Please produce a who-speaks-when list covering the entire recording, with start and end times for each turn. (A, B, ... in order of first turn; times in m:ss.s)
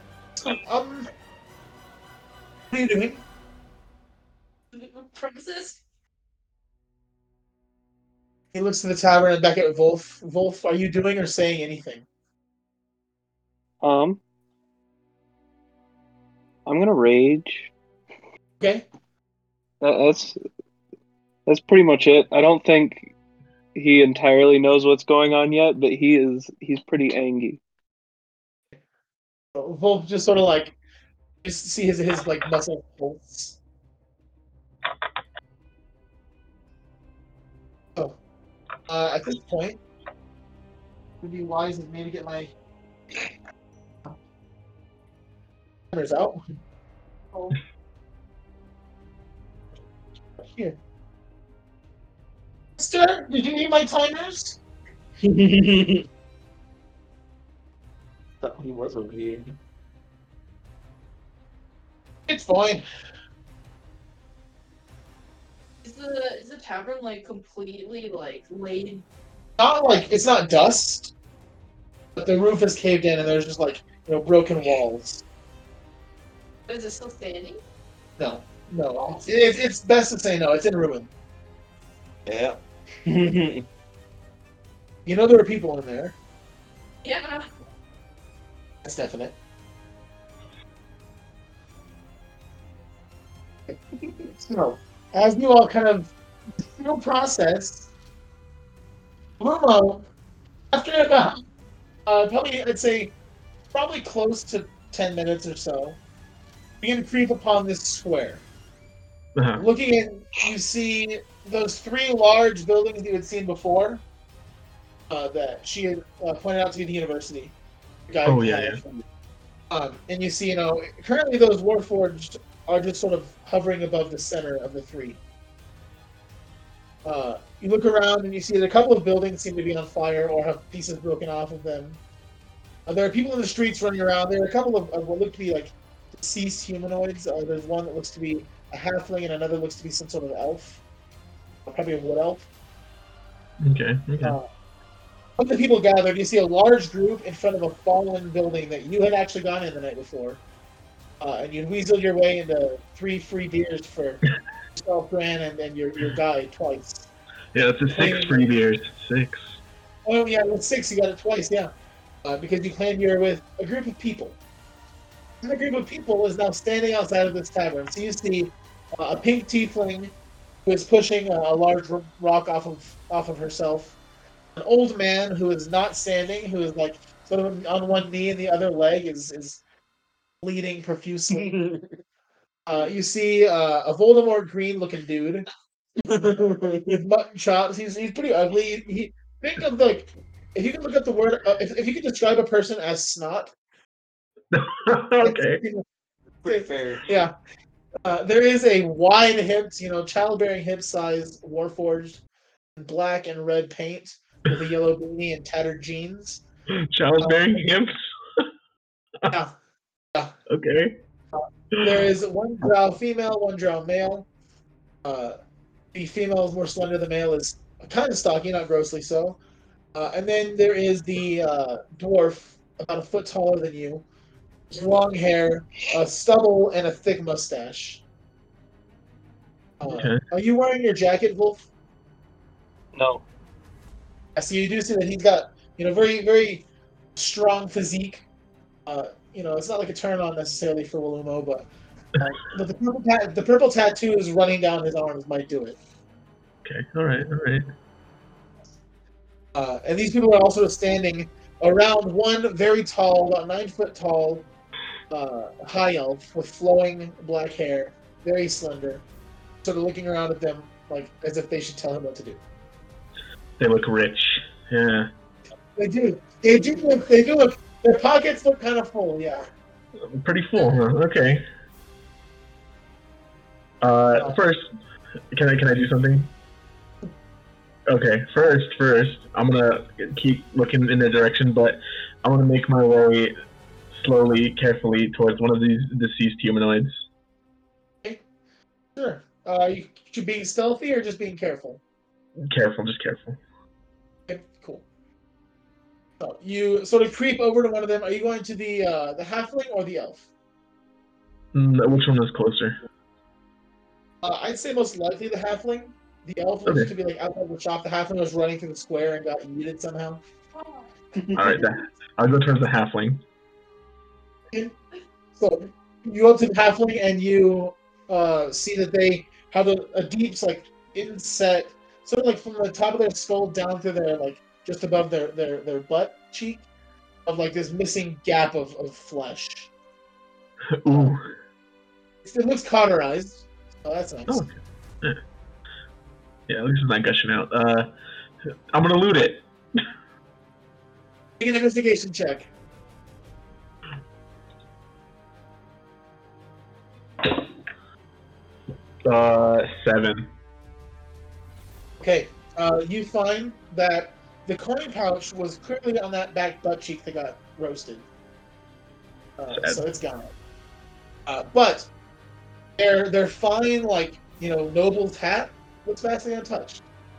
0:00.4-0:01.1 A
0:02.7-0:03.2 A
0:04.7-0:05.8 B
0:08.5-0:12.0 A
0:13.8-0:14.2 C
0:16.6-0:17.7 C
0:18.6-0:18.8 A
0:19.8-0:20.4 C
0:21.5-0:23.1 C
0:23.7-0:27.6 C
0:29.5-0:30.7 A
0:31.4-0:33.6 A
0:38.9-0:39.8 A
0:41.2-0:42.5 A
0:45.9-0:46.4 A
0:50.4-0:50.8 A
0:52.8-0:54.6 A
0:55.2-0:56.0 D
0:58.4-0:59.5 D
1:02.3-1:02.8 A
1:05.8-1:09.0 B
1:09.6-1:11.1 A
1:12.2-1:15.2 A
1:16.7-1:17.6 B
1:18.2-1:21.1 A
1:22.2-1:23.6 D
1:25.0-1:26.1 A
1:27.0-1:27.5 B
1:28.8-1:29.4 A
1:33.7-1:37.9 A
1:39.4-1:40.1 A
1:40.7-1:41.4 A
1:42.0-1:43.1 A
1:43.7-1:46.0 A
1:46.8-1:48.4 A
1:49.3-1:49.6 E
1:49.6-1:54.0 A
1:55.1-1:57.5 A
1:58.1-1:59.0 A
1:58.2-1:58.8 E
1:59.7-2:05.2 A
2:07.0-2:12.0 A
2:12.8-2:20.8 A
2:21.6-2:22.5 A
2:23.6-2:24.4 E
2:24.2-2:24.5 A
2:25.4-2:30.4 A
2:31.2-2:34.2 A
2:34.8-2:37.1 A
2:37.5-2:39.6 E
2:37.9-2:38.5 A
2:40.0-2:41.7 A
2:42.2-2:44.4 A
2:45.4-2:50.1 A
2:50.6-2:54.0 A
2:54.6-2:59.6 A
3:00.4-3:01.5 A
3:01.3-3:02.0 D
3:02.6-3:05.4 A
3:06.0-3:07.0 D
3:06.8-3:13.5 A
3:14.5-3:15.6 E
3:15.2-3:15.8 A
3:16.4-3:17.0 D
3:16.4-3:17.3 A
3:18.0-3:22.2 A
3:22.8-3:26.4 A
3:26.7-3:28.5 E
3:27.2-3:27.5 A
3:30.5-3:31.0 E
3:31.3-3:34.3 A
3:31.7-3:32.0 E
3:35.0-3:35.4 A
3:35.9-3:39.4 A
3:39.9-3:44.0 A
3:44.7-3:48.0 A
3:49.8-3:51.6 A
3:49.9-3:50.2 E
3:52.9-3:53.2 C
3:54.3-3:56.6 A
3:57.2-3:58.2 A
3:58.9-4:05.8 A
4:06.6-4:07.6 E
4:09.5-4:14.5 A
4:15.1-4:19.0 A
4:19.6-4:22.4 A
4:23.6-4:25.1 E
4:25.8-4:29.5 A
4:30.0-4:31.4 E
4:33.8-4:34.7 E
4:35.3-4:36.3 E
4:37.9-4:43.3 E
4:43.9-4:47.0 E
4:49.0-4:51.8 A
4:52.4-4:53.4 E
4:54.3-4:54.8 A
4:56.2-5:00.2 A
5:01.5-5:02.8 E
5:04.2-5:10.2 A
5:06.6-5:06.9 E
5:10.5-5:10.9 B
5:11.3-5:13.2 E
5:15.4-5:26.6 A
5:27.2-5:29.7 A
5:30.7-5:31.3 E
5:30.8-5:31.1 A
5:32.2-5:34.4 A
5:34.3-5:35.2 E
5:36.5-5:37.9 E
5:38.7-5:39.4 E
5:41.4-5:42.5 A
5:49.0-5:50.3 E
5:52.0-5:58.0 A
5:59.4-6:00.3 A
5:59.5-5:59.8 E
6:01.3-6:01.9 A
6:02.8-6:06.8 A